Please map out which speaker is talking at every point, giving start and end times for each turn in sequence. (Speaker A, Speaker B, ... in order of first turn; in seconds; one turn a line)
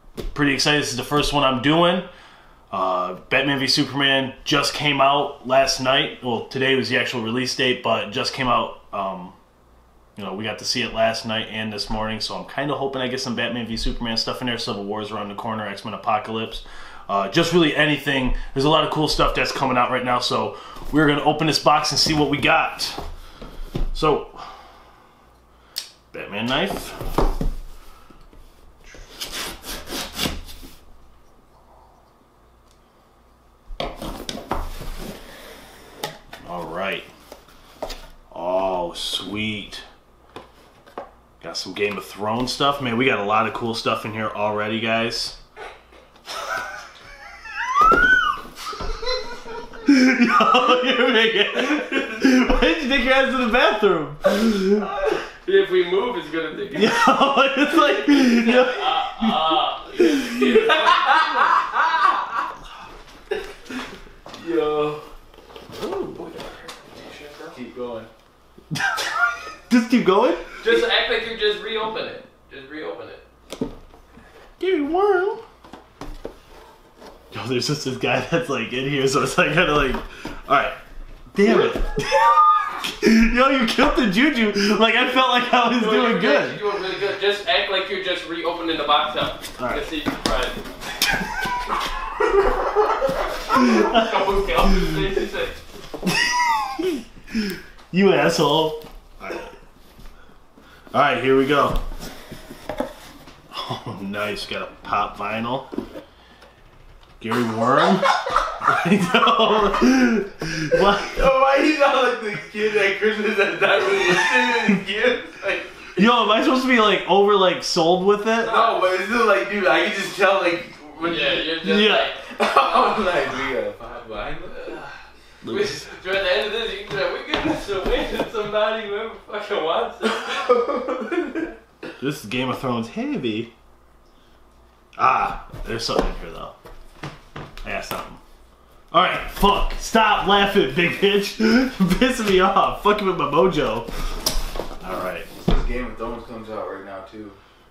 Speaker A: 0.3-2.1
Speaker A: 2.7-9.3
Speaker A: 10.2-23.0
Speaker A: 23.9-24.5
Speaker A: 26.1-27.0
Speaker A: 36.4-37.1
Speaker A: 38.3-39.8
Speaker A: 41.4-45.4
Speaker A: 49.8-54.9
Speaker B: 55.4-61.9
Speaker A: 56.7-60.2
Speaker C: 64.3-65.0
Speaker A: 65.7-66.2
Speaker B: 66.1-67.6
Speaker C: 67.5-68.1
Speaker A: 68.7-69.1
Speaker A: 69.7-70.5
Speaker B: 70.6-73.2
Speaker A: 74.6-75.4
Speaker A: 77.3-80.8
Speaker A: 81.3-86.6
Speaker B: 85.8-90.6
Speaker A: 89.6-89.9
Speaker B: 93.5-95.5
Speaker A: 93.5-94.1
Speaker A: 96.0-99.5
Speaker A: 100.9-101.8
Speaker A: 103.5-105.7
Speaker A: 107.2-111.2
Speaker C: 111.0-115.8
Speaker A: 116.0-118.5
Speaker B: 118.4-118.9
Speaker C: 118.5-121.4
Speaker B: 121.0-123.1
Speaker A: 121.6-122.1
Speaker C: 122.3-124.8
Speaker B: 124.6-124.9
Speaker A: 125.4-125.9
Speaker B: 125.5-130.7
Speaker C: 130.3-131.4
Speaker A: 132.0-133.5
Speaker A: 135.0-136.5
Speaker A: 137.6-138.2
Speaker A: 138.9-143.9
Speaker A: 144.8-145.3
Speaker C: 145.3-147.4